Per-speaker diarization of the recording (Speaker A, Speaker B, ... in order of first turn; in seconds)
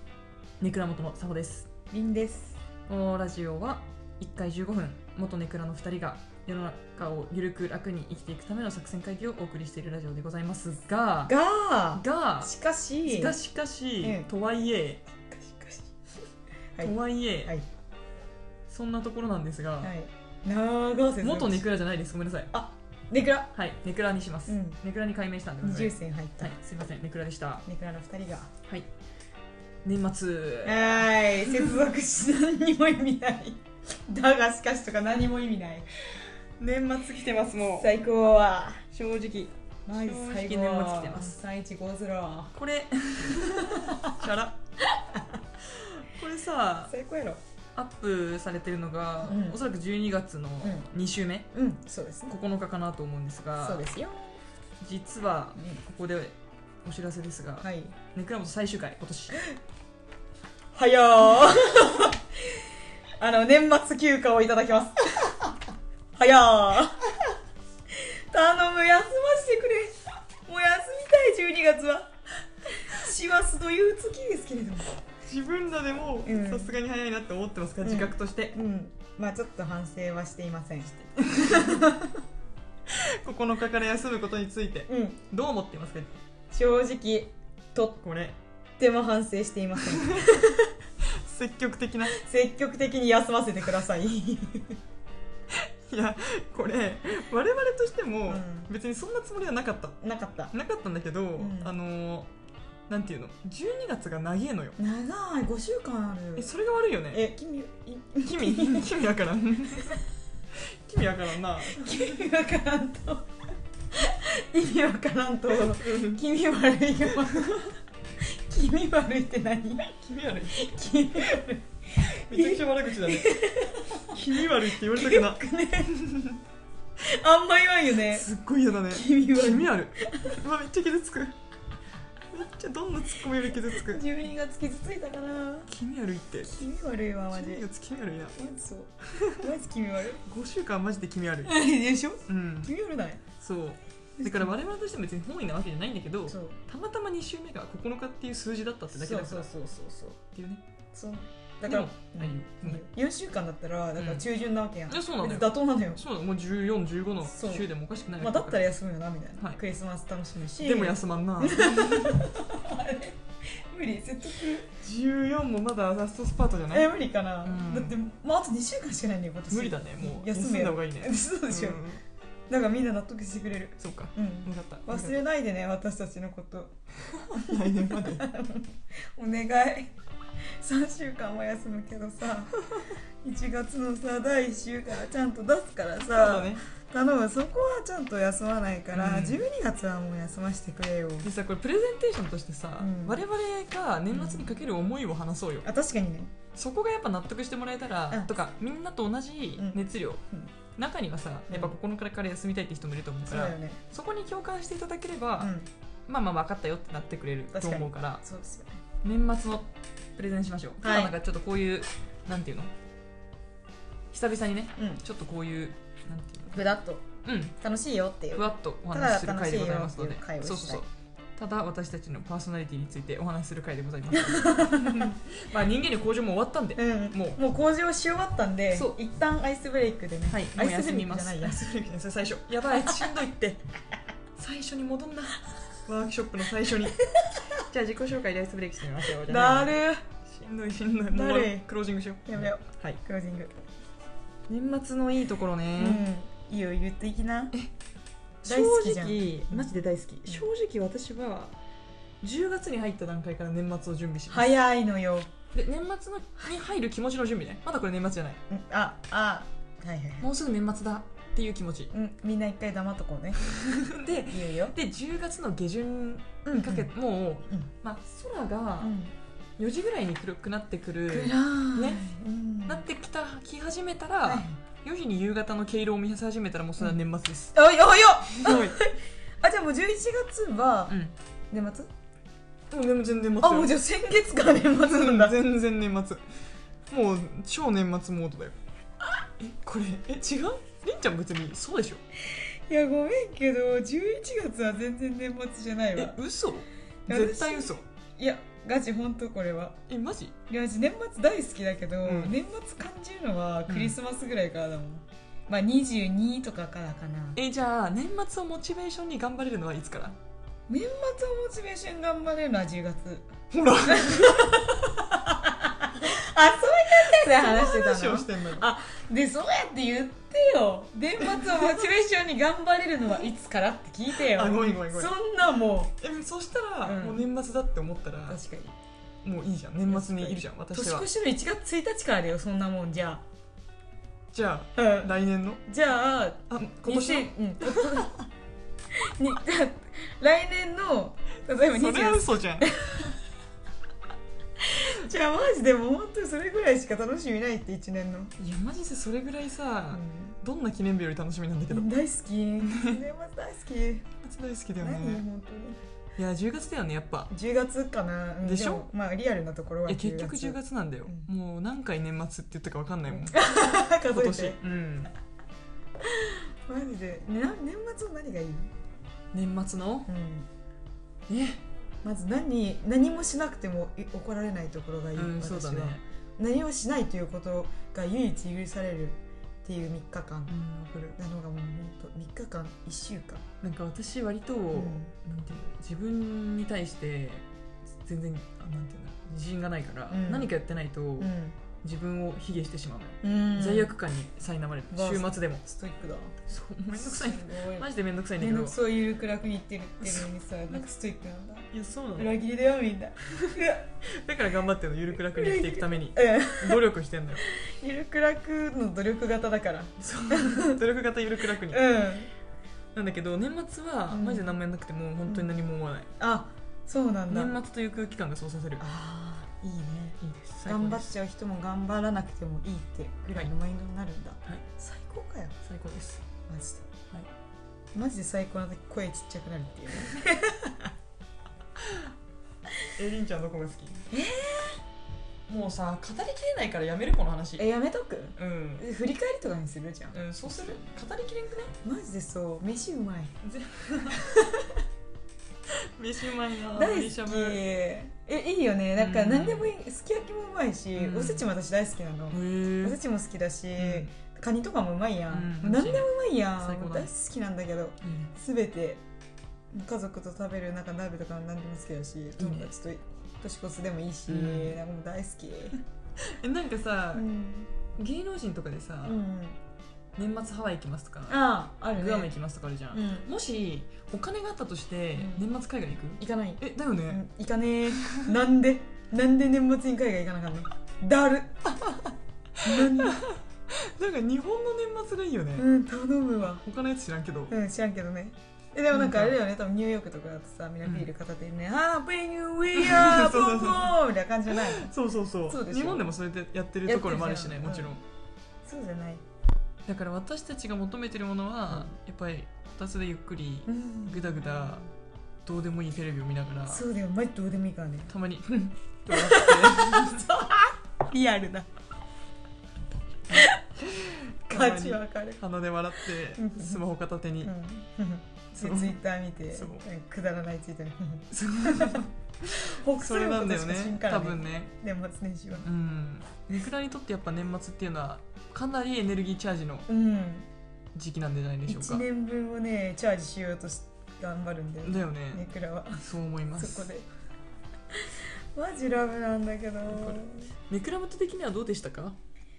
Speaker A: 0.6-1.7, 2.9-11.3, 11.9-15.0, 16.8-17.5, 18.7-19.9, 21.2-22.5, 23.5-27.6, 29.9-31.7, 36.6-37.9, 38.9-41.4, 42.5-44.6, 45.7-46.9, 47.8-51.5, 52.3-53.9, 54.8-59.4, 75.2-78.6, 80.9-81.9, 82.9-86.1, 88.0-88.4, 89.8-90.4, 91.0-92.2, 95.8-100.0, 100.5-102.3, 102.9-104.8, 106.4-107.2, 108.2-110.0, 110.5-112.1, 115.6-116.2, 120.0-120.7, 122.1-125.4, 128.0-131.3, 132.3-134.0, 135.7-136.7, 137.3-138.4, 139.2-139.5, 140.2-141.6, 142.3-142.7, 143.4-149.5, 150.3-150.6, 151.7-152.8, 154.0-154.3, 154.9-158.6, 160.6-162.2, 164.7-166.9, 167.4-167.9, 169.5-172.0, 173.8-175.2, 177.1-178.2, 186.1-186.6, 188.9-189.4, 191.2-195.7, 196.6-200.2, 200.8-205.5, 206.1-208.2, 209.0-212.7, 214.1-216.7, 217.2-217.6, 218.3-227.4, 228.7-229.0, 230.3-233.6, 234.4-243.0, 244.5-246.1, 248.4-251.5, 252.2-254.5, 255.5-258.4, 260.2-261.9, 263.4-268.9, 269.6-272.1, 272.7-277.6, 278.3-278.8, 280.9-281.1, 282.7-283.8, 284.8-286.2, 286.9-288.6, 289.4-292.0, 295.9-297.8, 299.9-300.4, 302.0-302.3, 303.7-304.0, 307.4-310.2, 313.5-314.8, 316.9-318.7, 324.1-325.1, 326.0-328.4, 329.2-331.1, 334.3-335.6, 336.5-338.1, 341.6-342.7, 348.4-351.9, 352.6-353.0, 354.2-355.2, 356.2-357.3, 358.4-358.9, 359.9-363.4, 364.0-365.1, 369.3-370.1, 371.3-371.6, 375.1-376.0, 380.5-381.2, 383.6-387.4, 388.0-395.6, 396.5-398.8, 400.0-400.9, 401.7-402.4, 403.4-407.4, 410.0-411.9, 412.9-416.1, 417.3-418.8, 420.2-421.1, 425.6-426.2, 432.9-434.1, 435.5-437.7, 438.4-438.8, 440.1-441.8, 443.4-444.2, 446.0-447.6, 449.0-449.7, 451.0-451.5, 452.3-453.0, 453.8-454.1, 455.3-457.1, 458.0-458.3, 462.4-462.7, 464.3-464.8, 466.4-467.3, 467.9-469.2, 470.2-477.2, 481.7-485.7, 486.4-487.6, 488.9-489.4, 490.8-491.1, 492.7-494.0, 494.5-498.0, 499.9-504.9, 505.4-506.8, 508.1-510.3, 513.3-517.5, 518.5-519.0, 519.5-519.8, 521.3-524.7, 525.6-529.9, 531.0-532.0, 534.8-536.9, 539.9-542.2
Speaker B: 1.9-2.6, 11.3-13.4, 14.0-14.3, 15.3-15.9, 16.8-17.6, 19.8-21.7, 22.5-23.5, 24.5-24.8, 25.6-26.6, 27.7-28.5, 30.6-35.9, 37.7-38.9, 39.9-42.5, 43.4-44.1, 46.9-47.4, 49.2-49.6, 50.6-50.9, 51.5-52.3, 53.6-54.4, 57.6-58.0, 60.7-62.6, 63.2-65.6, 66.2-67.2, 68.3-70.0, 70.5-72.1, 72.9-75.0, 76.2-76.8, 77.8-82.2, 84.9-85.2, 86.5-88.0, 88.8-90.7, 92.2-94.8, 98.3-98.7, 100.0-100.5, 101.4-101.8, 104.8-106.5, 107.1-109.0, 111.5-113.3, 114.0-117.7, 118.3-119.9, 120.5-126.4, 127.1-128.3, 128.8-130.4, 133.4-135.7, 136.4-137.7, 138.4-140.2, 141.4-143.2, 144.2-144.6, 146.3-146.6, 148.9-150.2, 150.9-156.0, 157.2-164.7, 166.7-171.8, 172.5-176.8, 177.4-179.9, 180.6-182.6, 183.2-191.3, 192.8-193.2, 194.1-194.5, 195.6-196.3, 199.6-200.5, 201.5-201.8, 203.2-203.8, 205.4-205.7, 207.5-208.8, 210.8-211.1, 214.8-215.0, 216.5-217.0, 217.6-220.8, 224.1-225.1, 226.8-231.6, 232.7-233.1, 239.2-240.0, 241.1-241.7, 242.2-243.5, 245.8-247.5, 248.4-249.7, 254.3-255.3, 258.5-260.3, 261.9-263.4, 264.2-264.8, 266.4-266.9, 268.8-269.1, 271.1-272.9, 274.2-274.6, 277.5-281.0, 281.5-281.9, 283.4-285.4, 292.3-296.2, 297.1-299.8, 300.5-307.4, 310.7-313.3, 313.9-326.0, 326.8-327.3, 328.3-328.8, 329.9-333.2, 334.8-335.1, 335.7-338.3, 339.0-343.1, 344.7-348.3, 349.9-350.4, 351.7-354.1, 354.8-355.8, 357.3-361.3, 363.1-364.6, 366.2-368.7, 370.1-370.5, 372.0-380.5, 381.2-383.4, 384.7-385.1, 390.1-390.5, 391.2-391.6, 393.2-393.9, 394.9-396.4, 396.9-403.9, 405.1-406.8, 407.6-410.8, 411.7-412.3, 414.1-414.5, 416.2-417.6, 418.8-425.6, 426.5-426.9, 427.9-430.9, 434.1-434.8, 437.6-440.8, 441.8-443.3, 444.2-444.7, 446.7-459.0, 459.7-465.8, 467.1-467.7, 469.0-469.6, 471.3-472.3, 472.9-473.3, 475.1-475.5, 476.2-481.6, 482.6-483.2, 485.6-486.6, 487.5-494.9, 495.5-496.1, 496.9-498.0, 498.7-499.2, 503.7-504.8, 506.7-508.1, 509.1-511.7, 513.3-513.9, 514.5-515.4, 516.4-516.8, 517.4-525.7, 529.9-530.5, 531.7-536.0, 536.6-537.1, 538.1-540.5